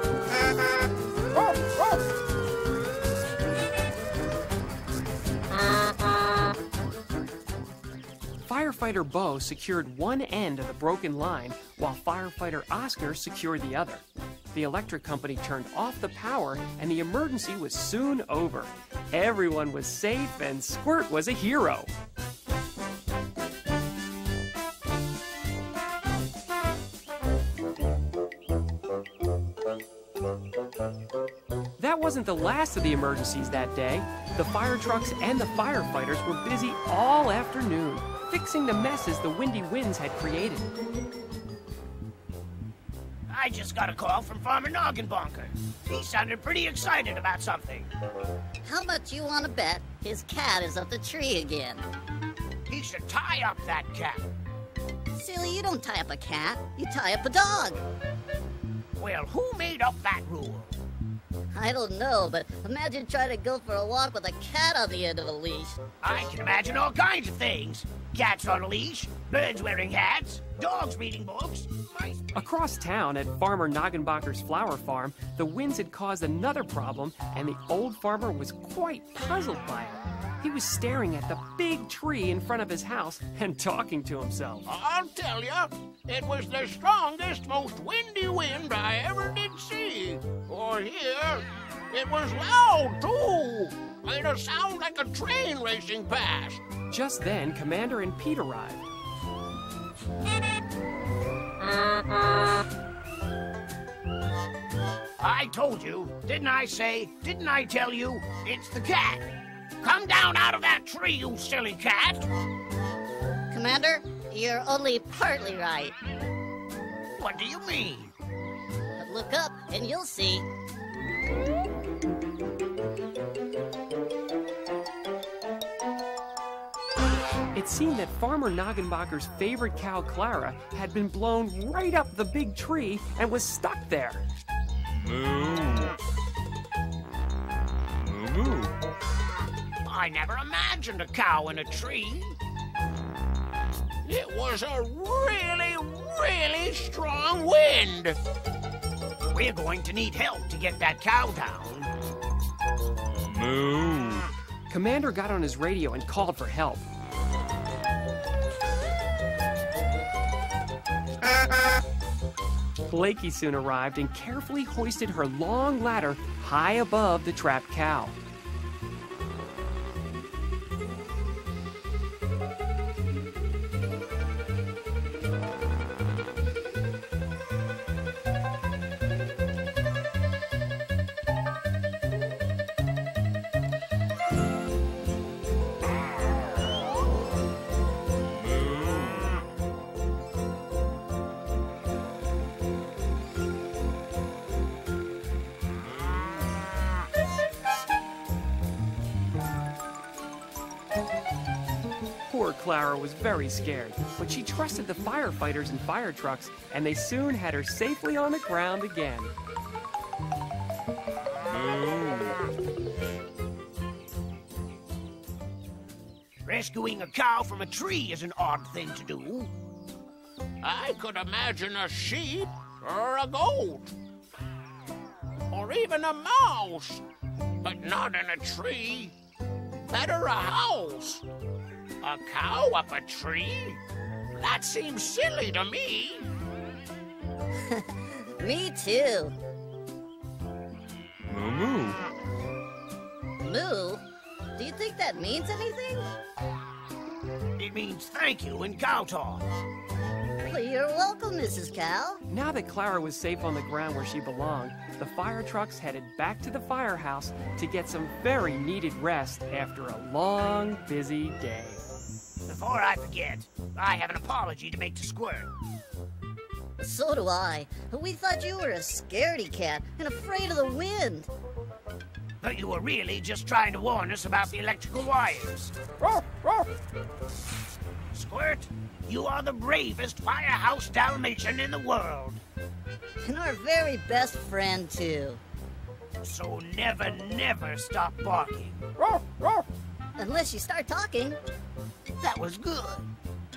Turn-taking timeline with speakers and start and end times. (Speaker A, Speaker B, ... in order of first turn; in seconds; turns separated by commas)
Speaker A: 8.4-21.9, Speaker A: 31.8-40.7, Speaker B: 43.3-47.9, Speaker C: 48.6-51.8, Speaker B: 52.7-54.3, Speaker C: 55.1-57.8, Speaker B: 59.0-60.8, Speaker C: 61.5-65.8, Speaker B: 66.0-72.3, Speaker A: 72.3-84.7, Speaker D: 84.7-96.6, Speaker A: 96.9-98.9, Speaker B: 105.2-109.3, Speaker B: 109.8-112.3, Speaker C: 113.5-115.9, Speaker B: 117.2-118.1, Speaker C: 119.0-120.5, Speaker A: 127.5-134.2, Speaker E: 135.0-135.9, Speaker E: 138.0-138.8, Speaker B: 139.8-142.4, Speaker D: 144.0-148.2, Speaker B: 149.3-151.9, Speaker E: 153.3-154.3, Speaker A: 154.7-156.8, Speaker A: 162.8-168.2, Speaker A: 202.3-209.3, Speaker E: 211.7-212.3, Speaker B: 216.4-219.5, Speaker D: 220.6-224.0, Speaker D: 225.5-227.1, Speaker D: 227.6-229.2, Speaker D: 229.9-231.2, Speaker D: 232.0-233.8, Speaker D: 234.3-236.3, Speaker C: 237.7-239.3, Speaker E: 241.3-242.0, Speaker C: 243.4-244.0, Speaker C: 244.6-246.1, Speaker B: 247.6-249.4, Speaker C: 250.5-252.2, Speaker A: 252.3-261.8, Speaker B: 262.5-265.5, Speaker C: 266.8-271.3, Speaker B: 272.4-275.7, Speaker B: 278.1-282.4, Speaker C: 283.2-285.4, Speaker B: 286.2-288.9, Speaker C: 290.2-291.4, Speaker B: 292.2-293.1